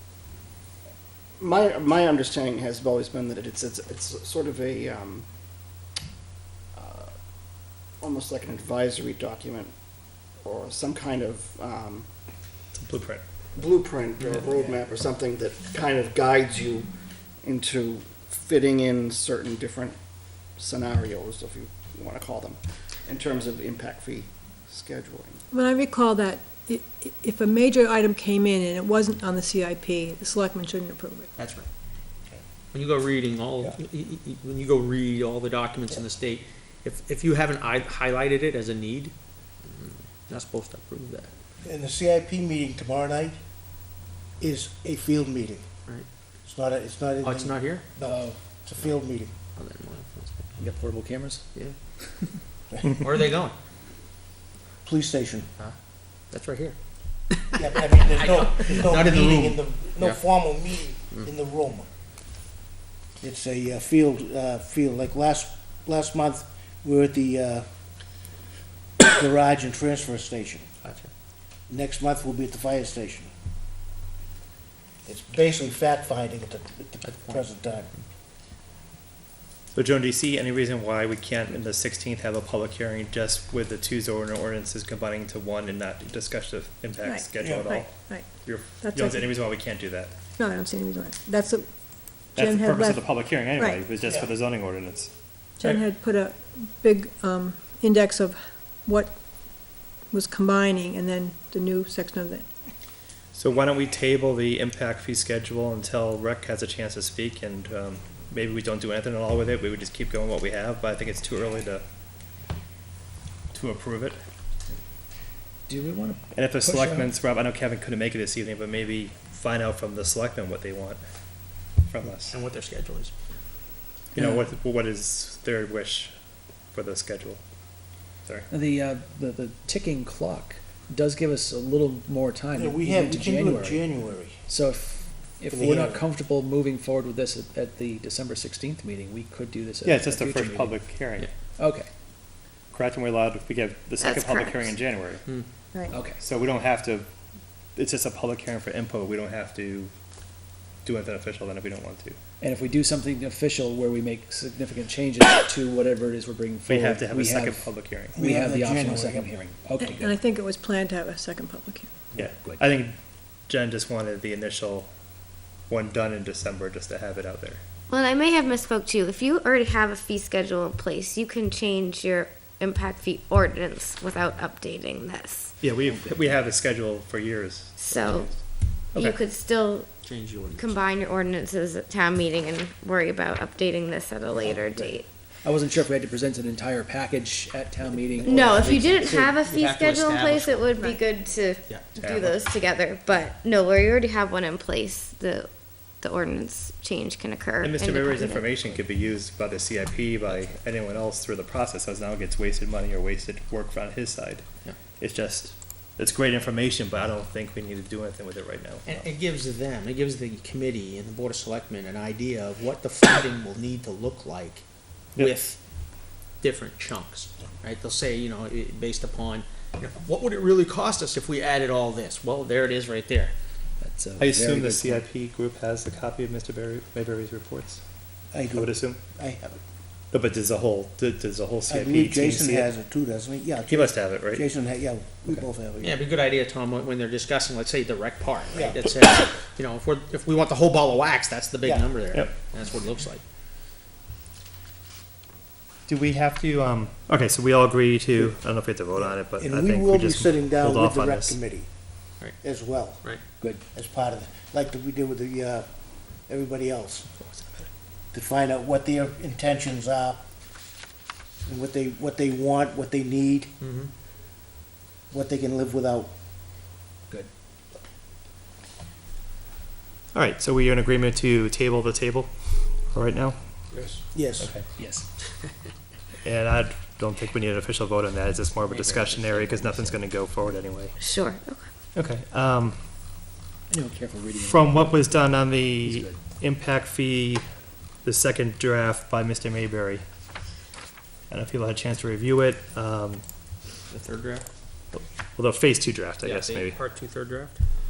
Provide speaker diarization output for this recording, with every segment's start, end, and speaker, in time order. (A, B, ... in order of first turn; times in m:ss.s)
0:01.4-0:05.3 A
0:06.7-0:07.1 A
0:08.0-0:09.7 A
0:10.4-0:12.1 A
0:12.7-0:13.2 B
0:13.6-0:16.9 A
0:14.2-0:14.7 C
0:17.4-0:20.0 A
0:20.5-0:25.4 A
0:25.5-0:31.3 D
0:31.4-0:31.7 C
0:32.7-0:41.3 C
0:41.6-0:43.4 E
0:44.4-0:45.7 E
0:46.4-0:49.3 E
0:47.2-0:47.8 C
0:48.0-0:48.4 F
0:49.6-0:50.5 C
0:50.6-0:51.5 F
0:53.0-0:53.6 C
0:54.8-0:55.5 E
0:56.3-0:56.8 C
0:57.5-1:01.9 E
0:57.9-1:00.2 C
1:03.2-1:07.7 E
1:09.1-1:10.7 E
1:10.8-1:11.1 C
1:11.7-1:13.3 E
1:15.0-1:17.9 E
1:17.0-1:18.0 C
1:19.7-1:30.2 B
1:27.0-1:29.4 D
1:27.4-1:27.7 E
1:30.4-1:33.9 D
1:32.4-1:35.8 B
1:35.6-1:39.2 D
1:39.7-1:42.5 D
1:43.4-1:51.8 B
1:53.5-1:54.2 B
1:55.7-1:57.1 F
1:56.4-2:01.0 B
2:01.7-2:02.4 B
2:02.3-2:03.1 C
2:04.2-2:04.4 F
2:04.2-2:06.1 B
2:06.7-2:07.4 B
2:08.5-2:13.9 F
2:12.6-2:14.4 E
2:14.5-2:20.8 F
2:15.5-2:16.0 E
2:19.8-2:21.3 B
2:21.6-2:21.9 F
2:22.7-2:25.2 B
2:24.0-2:24.8 G
2:25.7-2:26.1 D
2:25.9-2:26.2 F
2:26.1-2:27.1 B
2:27.8-2:29.9 B
2:30.8-2:32.2 B
2:32.4-2:40.2 F
2:36.7-2:38.2 B
2:38.1-2:39.3 E
2:39.8-2:41.9 D
2:42.2-2:42.7 F
2:42.2-2:43.0 B
2:43.5-2:44.9 B
2:45.7-2:47.6 B
2:47.9-2:55.5 G
2:55.6-2:58.3 B
2:55.8-2:56.4 F
2:57.8-2:58.3 G
2:59.0-2:59.2 B
2:59.0-2:59.9 G
3:00.0-3:00.9 C
3:00.6-3:05.1 G
3:04.4-3:09.3 F
3:08.2-3:10.8 C
3:08.2-3:15.5 G
3:10.7-3:11.0 D
3:11.7-3:11.9 C
3:12.0-3:12.5 B
3:16.0-3:18.5 G
3:17.6-3:24.5 B
3:20.3-3:20.6 C
3:25.0-3:29.0 B
3:28.9-3:34.6 C
3:35.2-3:35.6 C
3:36.4-3:43.3 C
3:43.8-3:45.1 F
3:44.2-3:47.8 B
3:48.3-3:49.6 E
3:48.5-3:49.0 B
3:50.1-3:52.7 B
3:51.7-3:56.0 E
3:53.7-3:54.5 B
3:55.8-4:03.2 C
3:58.5-3:58.9 E
4:01.6-4:01.9 E
4:05.9-4:11.4 B
4:08.9-4:13.0 E
4:13.7-4:17.1 E
4:17.2-4:17.7 B
4:18.1-4:20.3 E
4:21.4-4:23.5 E
4:23.6-4:23.9 C
4:25.1-4:26.1 E
4:30.1-4:33.6 B
4:34.1-4:34.5 E
4:34.4-4:34.6 B
4:34.8-4:35.1 F
4:36.2-4:41.0 B
4:38.7-4:39.9 C
4:39.6-4:40.0 F
4:41.0-4:41.7 G
4:42.0-4:42.8 B
4:43.7-4:45.1 F
4:44.4-4:47.4 B
4:45.8-4:46.2 F
4:48.0-4:50.0 B
4:51.3-4:53.2 B
4:53.9-4:54.5 C
4:54.9-4:56.8 B
4:56.2-4:57.6 C